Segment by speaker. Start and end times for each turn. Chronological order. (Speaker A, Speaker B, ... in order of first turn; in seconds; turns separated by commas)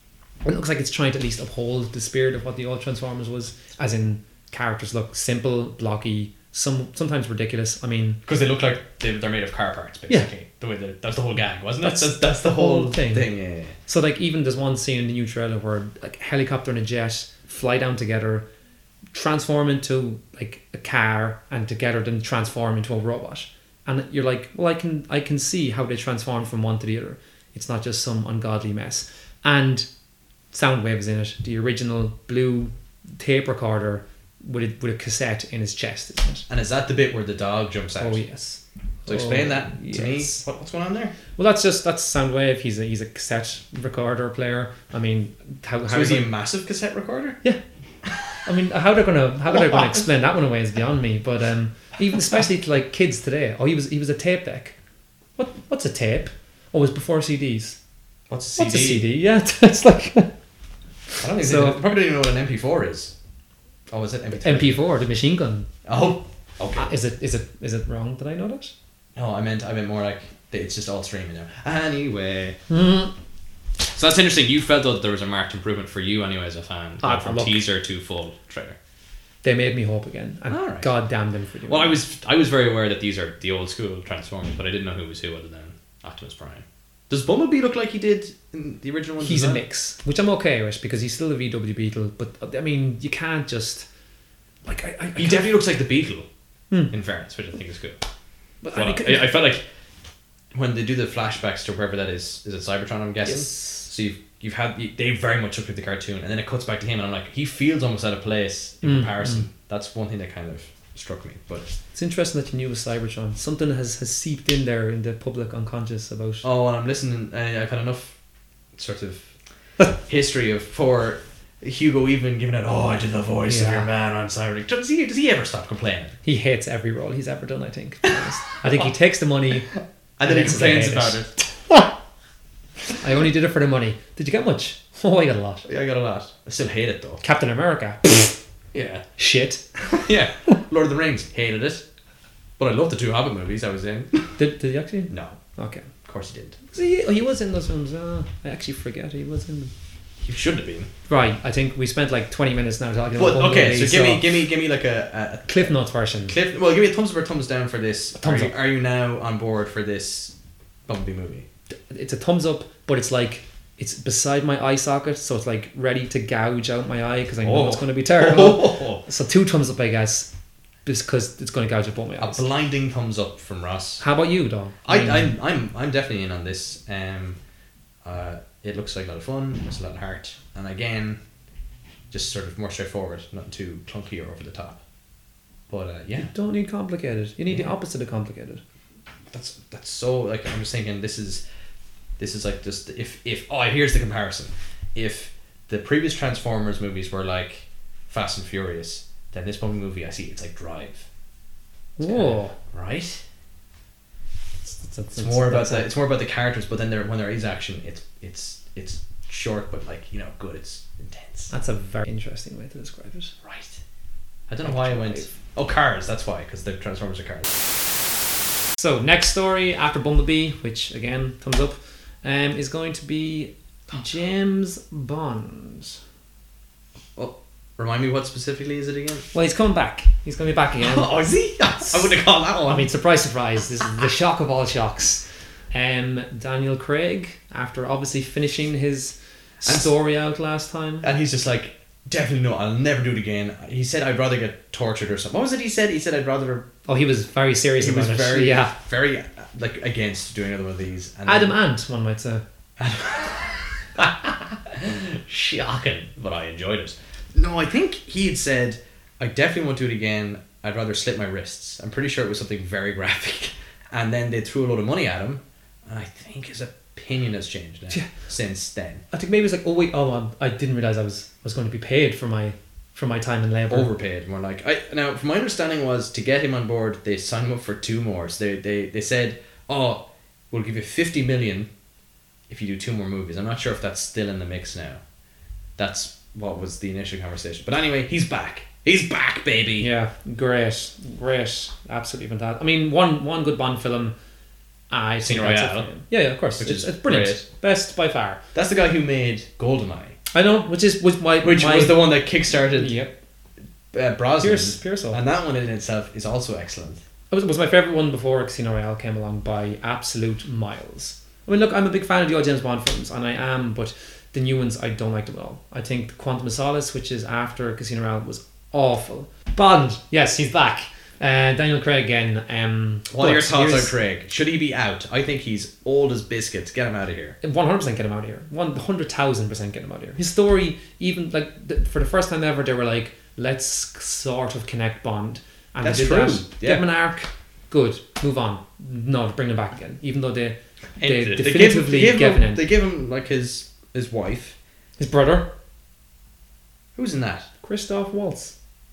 Speaker A: 0.5-8.2, Speaker B: 8.3-13.8, Speaker A: 11.8-13.3, Speaker A: 13.9-18.4, Speaker A: 19.1-29.9, Speaker A: 30.5-36.5, Speaker B: 36.5-38.2, Speaker A: 38.0-40.4, Speaker B: 39.1-41.1, Speaker A: 41.4-46.3, Speaker B: 45.9-47.4, Speaker B: 48.1-48.3, Speaker A: 48.4-54.8, Speaker B: 49.5-50.1, Speaker A: 55.4-57.8, Speaker B: 58.3-59.1, Speaker A: 58.6-60.3, Speaker A: 61.1-61.8, Speaker B: 61.2-63.1, Speaker B: 63.9-64.8, Speaker A: 64.4-65.7, Speaker B: 65.8-66.9, Speaker A: 66.8-68.7, Speaker B: 69.2-72.6, Speaker A: 72.7-73.1, Speaker B: 73.9-78.8, Speaker A: 77.0-77.7, Speaker A: 79.4-82.0, Speaker B: 80.5-80.9, Speaker B: 81.7-89.6, Speaker A: 89.2-93.9, Speaker A: 94.7-95.5, Speaker B: 95.2-96.3, Speaker B: 96.9-98.0, Speaker A: 98.6-99.4, Speaker B: 98.7-99.6, Speaker B: 100.5-111.7, Speaker A: 103.2-103.9, Speaker A: 108.8-109.5, Speaker A: 111.9-116.5, Speaker B: 116.4-118.2, Speaker B: 118.8-119.3, Speaker B: 120.0-126.2, Speaker A: 123.5-123.9, Speaker A: 126.2-129.7, Speaker B: 130.2-131.4, Speaker A: 130.2-131.8, Speaker A: 133.0-135.7, Speaker B: 135.7-137.2, Speaker A: 137.2-138.4, Speaker B: 138.7-139.1, Speaker A: 139.2-139.7, Speaker B: 139.9-141.8, Speaker B: 142.6-144.4, Speaker A: 144.4-145.9, Speaker B: 145.1-145.4, Speaker B: 146.0-146.6, Speaker A: 146.7-149.7, Speaker B: 150.2-150.9, Speaker A: 151.1-154.3, Speaker B: 153.2-160.3, Speaker A: 155.5-156.4, Speaker A: 158.2-158.5, Speaker B: 160.9-161.5, Speaker A: 161.9-170.3, Speaker B: 167.4-169.0, Speaker A: 170.8-172.5, Speaker B: 172.2-174.0, Speaker A: 174.0-175.3, Speaker B: 174.8-177.4, Speaker B: 178.0-181.2, Speaker B: 182.1-184.8, Speaker B: 185.7-186.3, Speaker A: 186.2-188.6, Speaker B: 189.3-191.4, Speaker B: 192.2-201.1, Speaker A: 202.0-202.6, Speaker B: 202.0-203.2, Speaker A: 204.7-205.9, Speaker B: 205.2-211.5, Speaker A: 211.5-213.3, Speaker B: 213.4-213.8, Speaker B: 214.5-217.5, Speaker A: 214.6-215.3, Speaker A: 218.8-226.0, Speaker B: 227.2-229.3, Speaker A: 229.3-231.2, Speaker B: 230.8-232.9, Speaker A: 232.7-241.1, Speaker B: 239.7-239.9, Speaker B: 241.0-246.7, Speaker A: 246.9-248.7, Speaker B: 247.8-251.6, Speaker A: 251.3-252.4, Speaker B: 252.8-269.0, Speaker A: 269.1-273.9, Speaker B: 273.7-281.7, Speaker B: 282.5-285.0, Speaker B: 285.8-289.9, Speaker A: 289.8-294.1, Speaker A: 294.9-298.4, Speaker B: 295.2-295.9, Speaker B: 296.6-297.4, Speaker B: 298.5-300.2, Speaker A: 300.3-302.1, Speaker B: 301.4-303.0, Speaker A: 302.7-303.1, Speaker B: 303.9-307.0, Speaker A: 304.4-305.2, Speaker A: 307.3-323.9, Speaker B: 323.1-327.4, Speaker A: 327.4-342.6, Speaker B: 335.8-336.9, Speaker B: 341.0-344.6, Speaker A: 345.0-345.5, Speaker B: 347.0-347.5, Speaker A: 347.6-348.5